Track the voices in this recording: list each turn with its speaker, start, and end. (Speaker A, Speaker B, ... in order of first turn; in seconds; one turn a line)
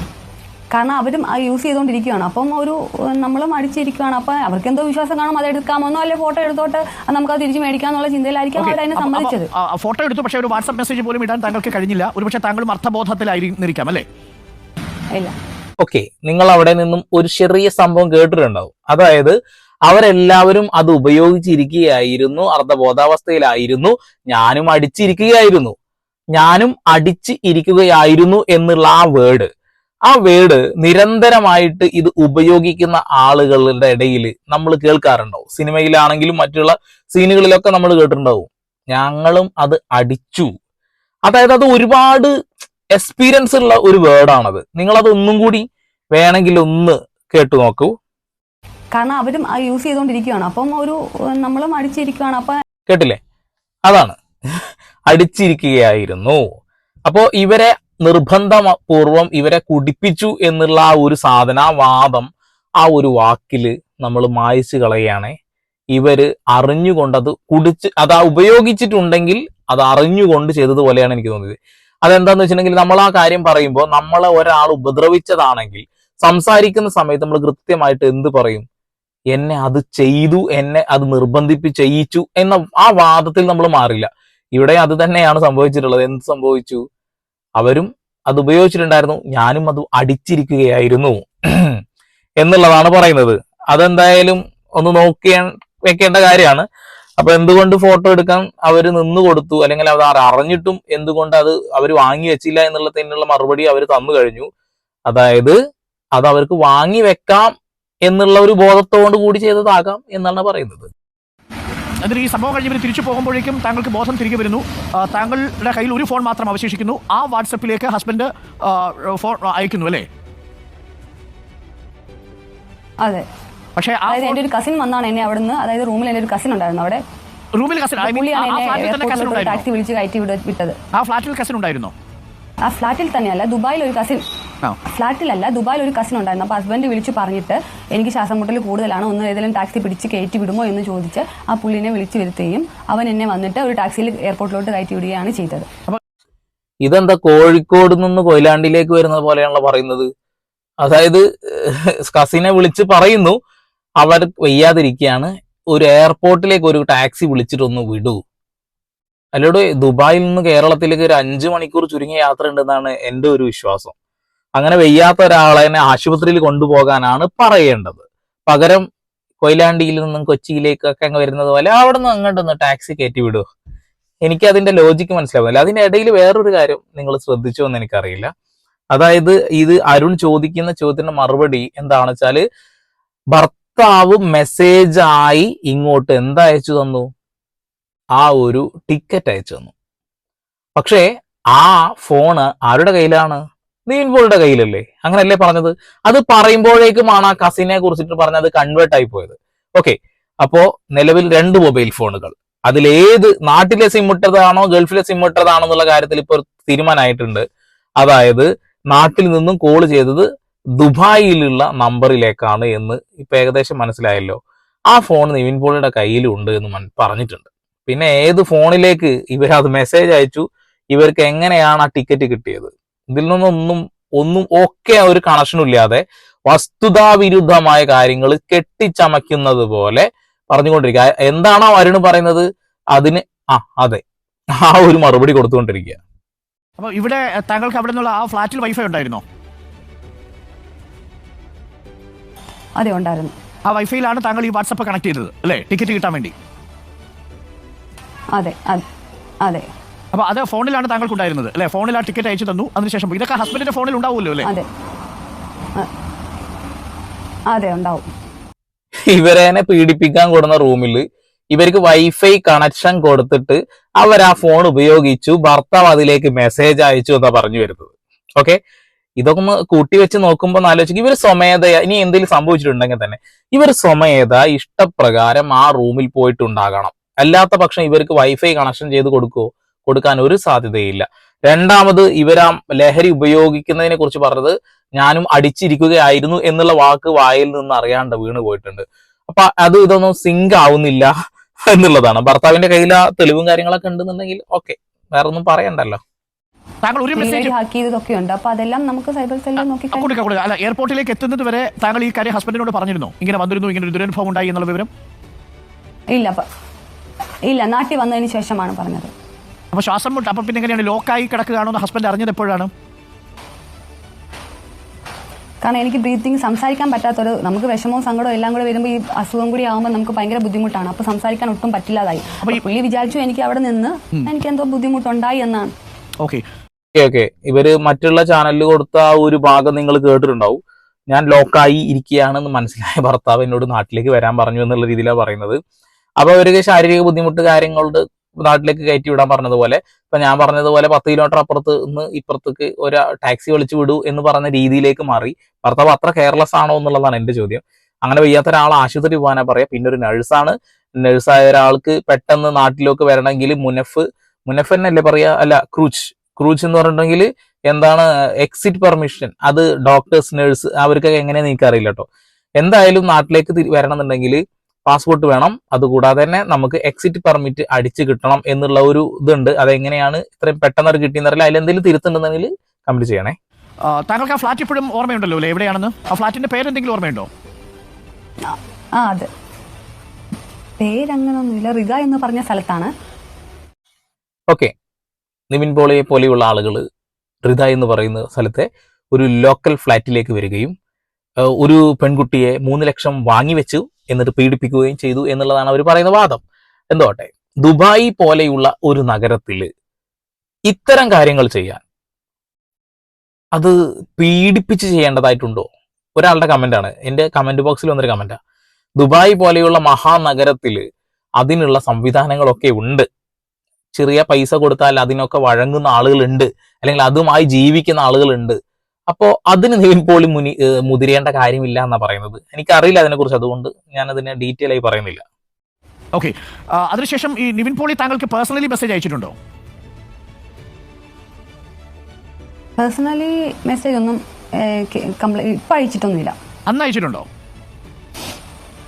Speaker A: 0.7-9.5
Speaker B: 8.6-14.0
Speaker C: 15.8-19.3
Speaker C: 19.9-25.7
Speaker C: 26.3-29.5
Speaker C: 30.1-40.5
Speaker C: 41.2-42.3
Speaker C: 42.9-47.9
Speaker A: 48.9-52.5
Speaker C: 52.9-53.2
Speaker C: 53.9-54.2
Speaker C: 55.1-56.4
Speaker C: 57.1-62.3
Speaker C: 62.8-65.3
Speaker C: 65.9-78.6
Speaker C: 79.3-86.8
Speaker C: 87.6-91.8
Speaker C: 92.4-96.6
Speaker C: 97.2-104.5
Speaker C: 105.1-105.5
Speaker C: 106.1-107.5
Speaker C: 108.0-110.9
Speaker B: 112.0-120.0
Speaker B: 123.8-124.4
Speaker A: 124.1-127.0
Speaker B: 127.5-129.6
Speaker A: 128.0-130.7
Speaker B: 130.9-131.9
Speaker A: 132.7-134.2
Speaker A: 134.9-145.7
Speaker C: 146.8-150.1
Speaker C: 150.8-153.3
Speaker C: 154.0-158.2
Speaker C: 159.3-163.9
Speaker C: 164.6-168.8
Speaker C: 169.4-173.4
Speaker C: 174.2-178.3
Speaker C: 178.9-182.4
Speaker C: 183.3-187.1
Speaker C: 188.2-189.7
Speaker C: 190.8-207.4
Speaker C: 208.0-210.2
Speaker C: 210.8-214.4
Speaker C: 214.9-234.0
Speaker C: 234.6-236.0
Speaker B: 236.8-239.2
Speaker A: 242.8-243.3
Speaker B: 243.7-246.3
Speaker A: 248.3-248.8
Speaker B: 250.1-254.5
Speaker A: 257.5-258.1
Speaker C: 259.1-268.6
Speaker C: 269.2-291.1
Speaker C: 291.7-296.0
Speaker B: 296.8-297.5
Speaker A: 297.1-300.1
Speaker B: 299.9-304.9
Speaker A: 306.1-306.4
Speaker A: 307.5-309.1
Speaker B: 309.7-312.7
Speaker A: 315.6-325.7
Speaker C: 326.9-330.6
Speaker C: 331.1-335.6
Speaker C: 336.2-362.0
Speaker C: 362.6-373.3
Speaker B: 373.9-377.3
Speaker A: 378.5-379.3
Speaker A: 380.8-382.9
Speaker C: 385.5-386.8
Speaker C: 387.4-390.7
Speaker C: 391.6-399.7
Speaker C: 400.7-401.8
Speaker C: 403.5-408.4
Speaker C: 409.0-410.8
Speaker C: 411.4-413.0
Speaker C: 413.9-418.6
Speaker C: 419.1-425.2
Speaker B: 426.1-429.3
Speaker A: 432.8-436.4
Speaker B: 436.7-437.2